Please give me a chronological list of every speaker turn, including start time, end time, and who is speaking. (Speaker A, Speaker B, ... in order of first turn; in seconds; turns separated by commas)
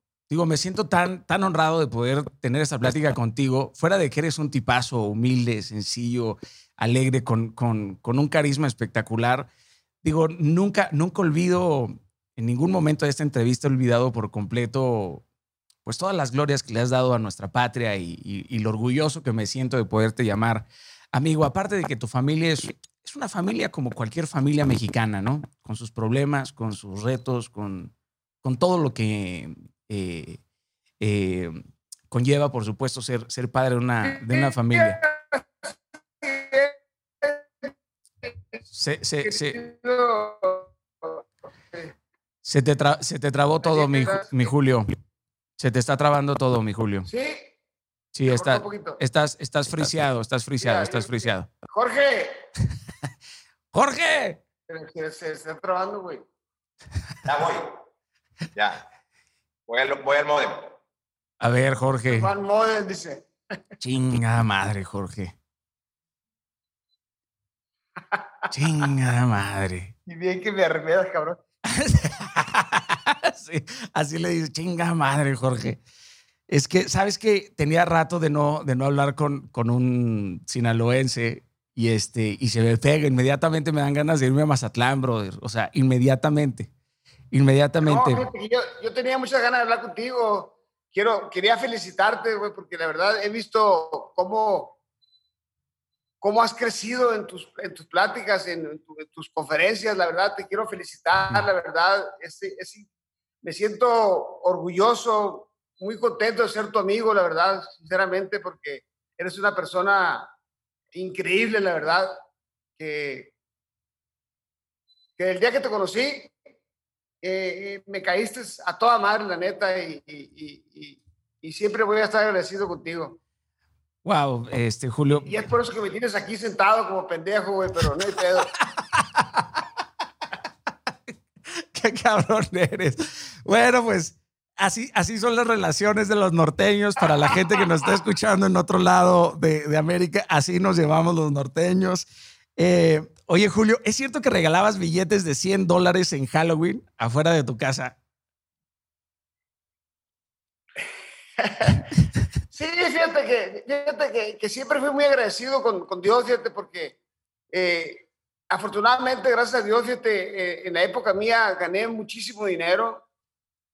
Speaker A: 0.3-9.5, Speaker A: 10.0-15.2, Speaker A: 15.8-27.9, Speaker A: 28.4-30.4, Speaker A: 31.0-31.6, Speaker A: 32.1-35.0, Speaker B: 34.0-37.7, Speaker A: 38.7-39.6, Speaker B: 39.2-41.9, Speaker A: 42.4-44.9, Speaker B: 43.6-44.5, Speaker A: 45.6-47.1, Speaker B: 47.1-47.5, Speaker A: 48.1-51.5, Speaker B: 48.2-49.0, Speaker B: 50.6-52.4, Speaker A: 53.7-54.4, Speaker B: 54.7-56.2, Speaker C: 57.2-57.7, Speaker C: 58.5-58.8, Speaker C: 59.7-60.7, Speaker A: 61.4-62.3, Speaker B: 62.1-63.3, Speaker A: 63.8-65.3, Speaker A: 68.5-69.9, Speaker B: 70.1-71.4, Speaker A: 71.7-75.8, Speaker A: 76.5-86.7, Speaker A: 87.3-88.3, Speaker B: 87.8-94.8, Speaker B: 96.2-102.9, Speaker B: 103.4-110.3, Speaker B: 110.9-112.2, Speaker B: 112.8-113.3, Speaker B: 115.2-116.3, Speaker B: 117.2-123.2, Speaker A: 124.0-125.5, Speaker B: 125.2-128.5, Speaker A: 128.8-129.6, Speaker A: 131.6-147.9, Speaker B: 151.4-151.9, Speaker B: 152.5-157.0, Speaker B: 157.5-163.0